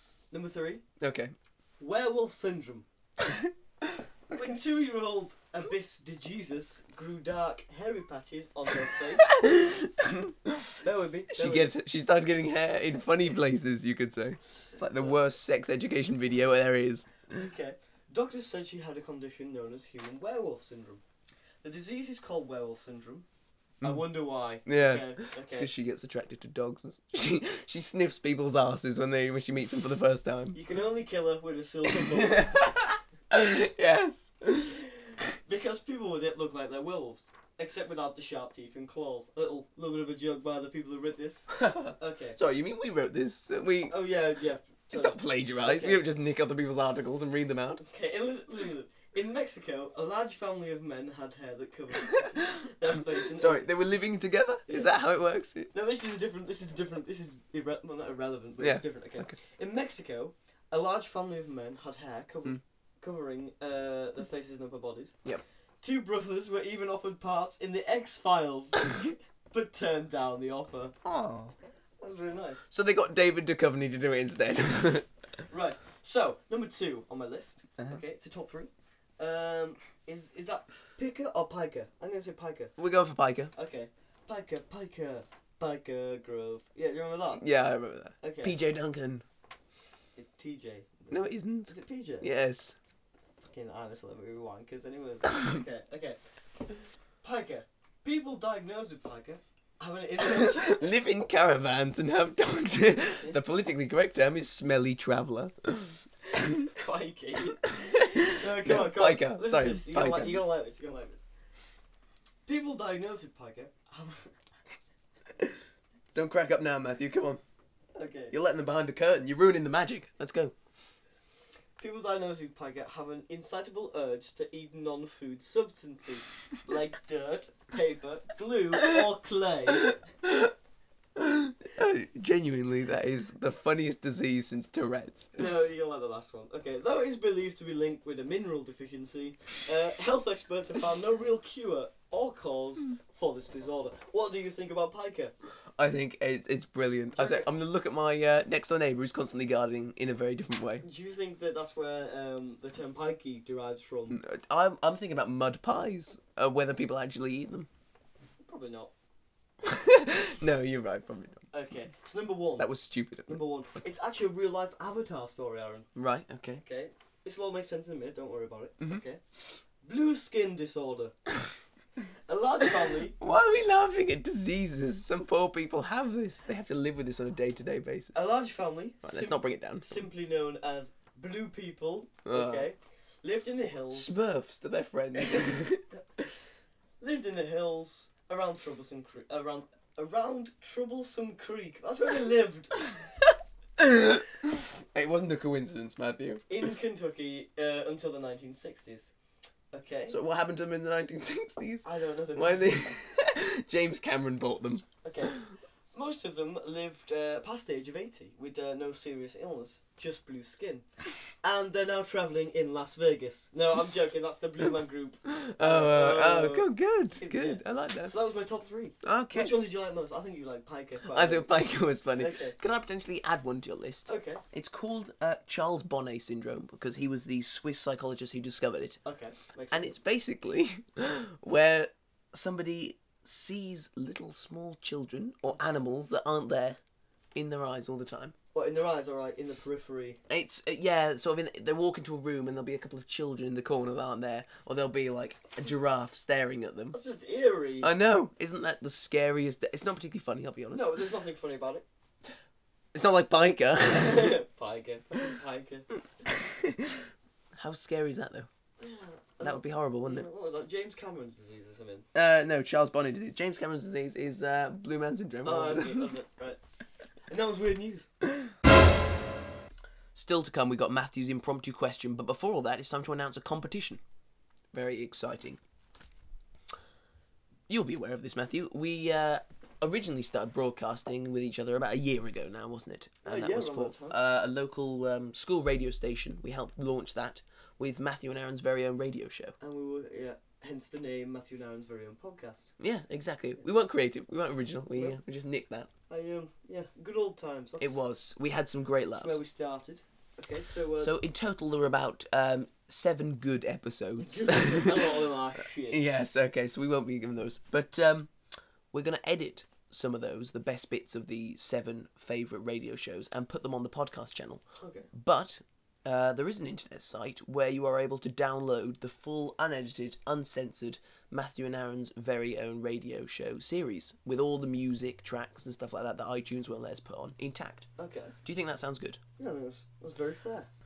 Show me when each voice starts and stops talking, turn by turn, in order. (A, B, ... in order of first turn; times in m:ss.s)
0:00.3-0:00.8 A
0:01.0-0:01.3 B
0:01.8-0:02.9 A
0:04.3-0:09.4 A
0:09.3-0:10.7 B
0:10.8-0:11.7 A
0:11.3-0:17.5 B
0:14.8-0:15.3 A
0:17.3-0:21.0 A
0:21.6-0:23.3 A
0:23.8-0:25.7 A
0:24.7-0:30.6 B
0:30.5-0:32.6 A
0:31.9-0:34.8 B
0:35.5-0:42.4 A
0:41.5-0:44.0 B
0:43.9-0:46.0 A
0:44.9-0:47.8 B
0:47.8-0:53.7 A
0:52.0-0:55.7 B
0:54.7-0:55.0 A
0:55.7-1:05.2 A
0:58.6-0:59.4 B
1:05.8-1:11.0 A
1:11.0-1:11.5 B
1:12.0-1:12.6 A
1:12.7-1:15.1 B
1:15.5-1:22.7 A
1:22.8-1:23.5 B
1:23.5-1:27.4 A
1:27.4-1:29.2 B
1:28.2-1:28.6 A
1:30.2-1:32.3 A
1:31.1-1:32.8 B
1:33.4-1:36.2 A
1:37.2-1:40.9 A
1:40.2-1:46.6 B
1:46.6-1:51.3 A
1:47.6-1:50.5 B
1:52.5-1:54.4 A
1:56.1-1:57.4 B
1:58.0-1:58.4 A
1:58.3-2:00.5 B
2:01.8-2:10.0 A
2:09.8-2:10.5 B
2:11.2-2:15.4 B
2:15.4-2:25.3 A
2:25.8-2:30.8 B
2:27.2-2:27.5 A
2:30.8-2:34.2 A
2:34.1-2:37.7 B
2:38.4-2:38.9 A
2:39.6-2:41.5 B
2:41.5-2:42.7 A
2:42.6-2:43.4 B
2:43.3-2:45.9 A
2:46.0-2:46.6 B
2:46.6-2:49.2 A
2:49.8-2:51.2 A
2:52.3-2:53.2 A
2:53.2-2:58.2 B
2:58.1-3:04.2 A
2:59.0-2:59.9 B
3:02.3-3:02.7 B
3:03.9-3:05.8 B
3:05.2-3:06.0 A
3:07.0-3:13.0 A
3:13.8-3:16.5 B
3:16.5-3:19.1 A
3:19.7-3:20.2 A
3:20.1-3:25.4 B
3:21.8-3:22.9 A
3:25.0-3:25.4 A
3:25.9-3:41.5 A
3:35.3-3:38.2 B
3:39.0-3:39.6 B
3:41.1-3:49.0 B
3:42.2-3:42.6 A
3:44.1-3:44.4 A
3:49.0-3:50.0 A
3:49.7-3:56.8 B
3:57.4-3:58.3 B
3:58.5-4:00.2 A
4:00.3-4:07.0 B
4:06.9-4:07.9 A
4:07.8-4:11.0 B
4:10.7-4:11.8 A
4:12.9-4:14.4 B
4:13.8-4:15.9 A
4:16.3-4:18.5 B
4:18.8-4:22.1 A
4:19.4-4:20.3 B
4:22.1-4:26.1 B
4:25.4-4:26.6 A
4:27.3-4:28.1 A
4:30.2-4:34.0 B
4:34.7-4:35.6 B
4:37.7-4:49.6 B
4:43.2-4:44.2 A
4:49.6-4:52.7 A
4:52.8-4:55.9 B
4:56.1-4:58.0 A
4:57.8-4:59.4 B
4:59.2-5:01.2 A
5:01.0-5:05.2 B
5:04.2-5:06.1 A
5:05.9-5:08.3 B
5:08.9-5:27.9 B
5:14.8-5:15.1 A
5:28.0-5:28.4 A
5:28.4-5:29.2 B
5:29.4-5:30.7 A